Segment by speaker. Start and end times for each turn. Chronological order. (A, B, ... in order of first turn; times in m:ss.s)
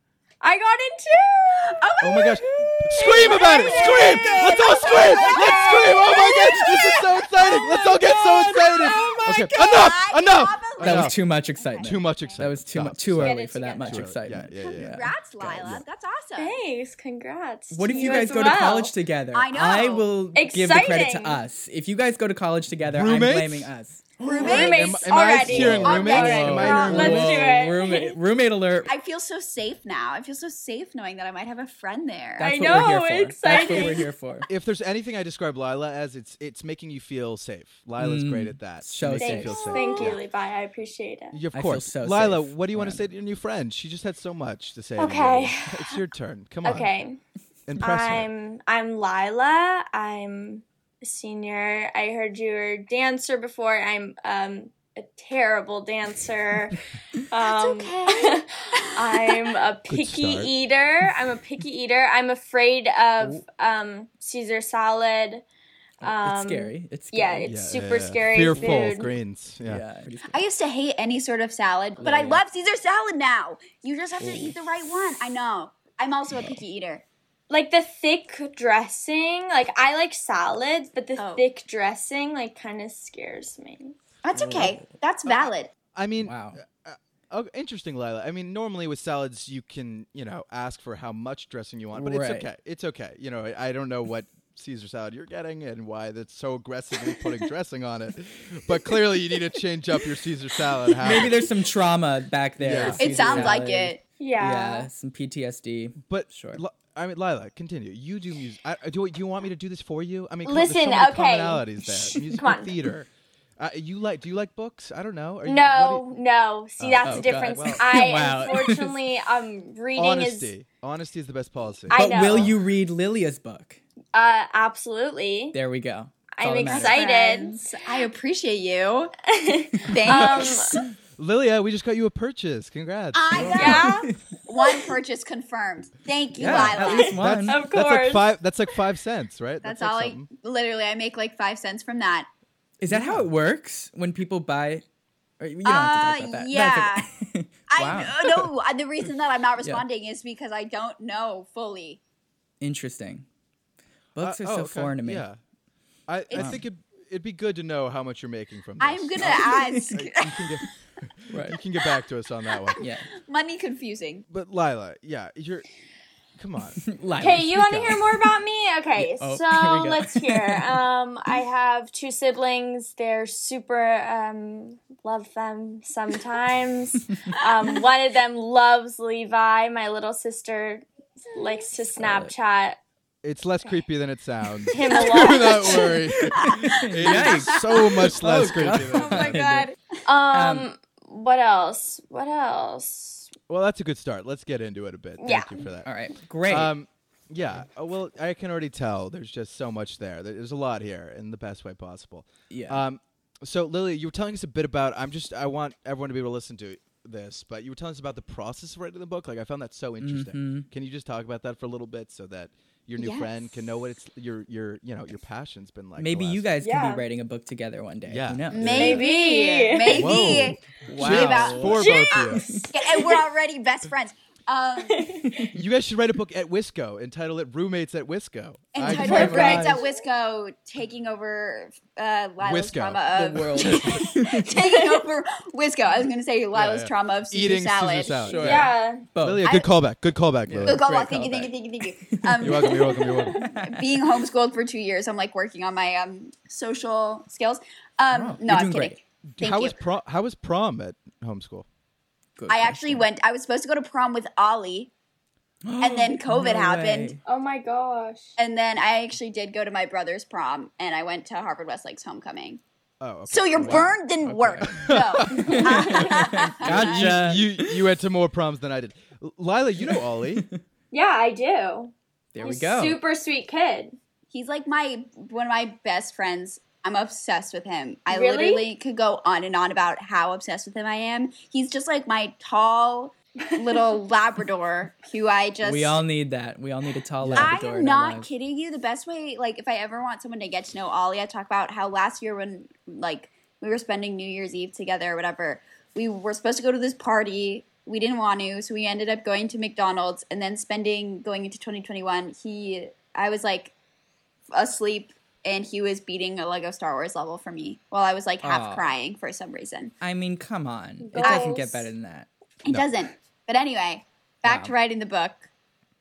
0:00.4-0:01.8 A
0:01.7-0:12.4 B
0:02.0-0:11.2 C
0:03.0-0:09.5 A
0:10.8-0:15.1 D
0:11.8-0:15.8 C
0:13.2-0:14.0 A
0:14.6-0:16.6 B
0:16.4-0:18.9 A
0:17.7-0:24.8 D
0:17.9-0:18.8 B
0:19.3-0:20.1 B
0:20.3-0:21.4 A
0:22.9-0:23.7 C
0:24.2-0:27.2 B
0:24.3-0:28.2 A
0:24.4-0:27.6 C
0:25.4-0:28.9 D
0:28.9-0:32.9 B
0:32.4-0:34.5 D
0:32.4-0:34.1 A
0:34.5-0:40.2 C
0:38.0-0:40.1 D
0:39.2-0:41.4 A
0:41.3-0:46.9 C
0:41.5-0:43.1 D
0:45.0-0:46.0 A
0:46.6-0:47.2 A
0:47.7-0:48.3 C
0:47.8-1:05.4 A
0:57.4-0:59.5 B
0:59.9-1:00.5 C
1:06.0-1:09.1 A
1:06.0-1:07.5 D
1:07.5-1:09.8 C
1:08.6-1:09.1 D
1:09.7-1:10.4 D
1:10.3-1:17.0 B
1:12.0-1:12.4 D
1:14.2-1:14.6 D
1:16.3-1:16.6 D
1:17.5-1:24.0 A
1:21.2-1:21.4 B
1:24.2-1:25.7 B
1:24.4-1:24.9 D
1:25.3-1:41.4 C
1:26.2-1:26.6 D
1:31.9-1:32.5 D
1:41.0-1:46.6 D
1:42.6-1:43.6 C
1:43.0-1:44.0 B
1:44.2-1:44.9 A
1:46.1-1:56.0 C
1:50.4-1:52.8 A
1:55.4-2:00.5 A
1:56.8-1:58.0 C
1:57.0-1:59.0 D
2:00.0-2:02.5 C
2:01.9-2:02.6 A
2:01.9-2:03.8 D
2:04.1-2:05.6 A
2:05.5-2:07.0 D
2:06.4-2:07.8 A
2:06.6-2:09.1 B
2:09.3-2:10.8 A
2:09.8-2:10.8 B
2:11.2-2:13.9 C
2:13.1-2:17.2 B
2:13.3-2:14.1 D
2:13.5-2:14.1 A
2:16.4-2:17.6 D
2:16.4-2:20.3 C
2:16.9-2:18.3 A
2:19.6-2:22.3 B
2:22.8-2:24.8 D
2:22.9-2:23.3 C
2:25.4-2:28.5 D
2:25.6-2:27.1 B
2:27.7-2:32.0 B
2:32.6-2:33.2 D
2:34.2-2:35.2 D
2:34.2-2:35.4 C
2:36.1-2:42.8 C
2:36.3-2:36.6 B
2:36.3-2:36.6 D
2:38.8-2:40.5 B
2:39.2-2:40.0 D
2:41.3-2:41.6 D
2:42.8-2:43.1 D
2:42.8-2:44.2 B
2:44.3-2:45.7 C
2:46.4-2:46.8 C
2:46.9-2:48.1 D
2:47.2-3:02.8 A
2:49.0-2:50.7 D
3:01.9-3:02.3 D
3:03.2-3:09.4 C
3:04.7-3:06.0 A
3:05.2-3:05.8 B
3:06.3-3:09.7 D
3:06.5-3:07.8 B
3:09.0-3:09.8 B
3:09.2-3:09.5 A
3:10.0-3:13.3 A
3:10.3-3:10.7 D
3:13.5-3:15.9 C
3:15.2-3:15.7 A
3:15.8-3:16.7 D
3:16.5-3:36.5 C
3:22.5-3:22.8 D
3:30.0-3:30.7 D
3:33.0-3:33.3 B
3:36.0-3:38.9 D
3:36.6-3:37.0 A
3:38.1-3:39.0 C
3:38.5-3:45.1 B
3:38.8-3:40.2 A
3:39.9-3:42.5 C
3:40.1-3:41.9 D
3:41.8-3:43.2 A
3:42.4-3:42.7 D
3:44.8-3:45.4 A
3:45.3-3:45.6 D
3:45.5-3:49.8 C
3:48.8-3:58.5 B
3:48.8-3:49.8 D
3:48.9-3:49.8 A
3:52.4-3:53.0 C
3:53.1-3:54.7 D
3:53.6-3:54.0 C
3:56.5-4:00.9 C
3:58.2-3:59.5 D
3:58.4-3:59.0 A
4:00.5-4:01.5 D
4:00.7-4:09.8 B
4:02.1-4:02.8 D
4:02.4-4:03.4 C
4:03.4-4:03.9 D
4:08.1-4:09.0 D
4:09.4-4:11.7 C
4:12.4-4:13.0 D
4:12.5-4:14.9 B
4:15.6-4:17.2 D
4:15.8-4:17.2 B
4:17.2-4:18.4 A
4:18.4-4:22.6 B
4:23.0-4:24.0 C
4:23.3-4:27.3 B
4:23.6-4:27.8 D
4:24.6-4:25.7 C
4:25.5-4:26.1 A
4:26.6-4:30.5 C
4:29.8-4:30.6 D
4:30.9-4:34.0 A
4:32.3-4:33.0 D
4:34.3-4:46.0 B
4:38.1-4:38.7 A
4:43.6-4:43.8 A
4:45.6-4:48.3 D
4:47.2-4:47.5 C
4:47.4-5:03.7 B
5:04.5-5:09.9 B
5:08.4-5:08.9 D
5:10.0-5:12.3 D
5:11.0-5:11.7 A
5:11.2-5:11.9 B
5:12.6-5:15.5 B
5:14.4-5:14.7 D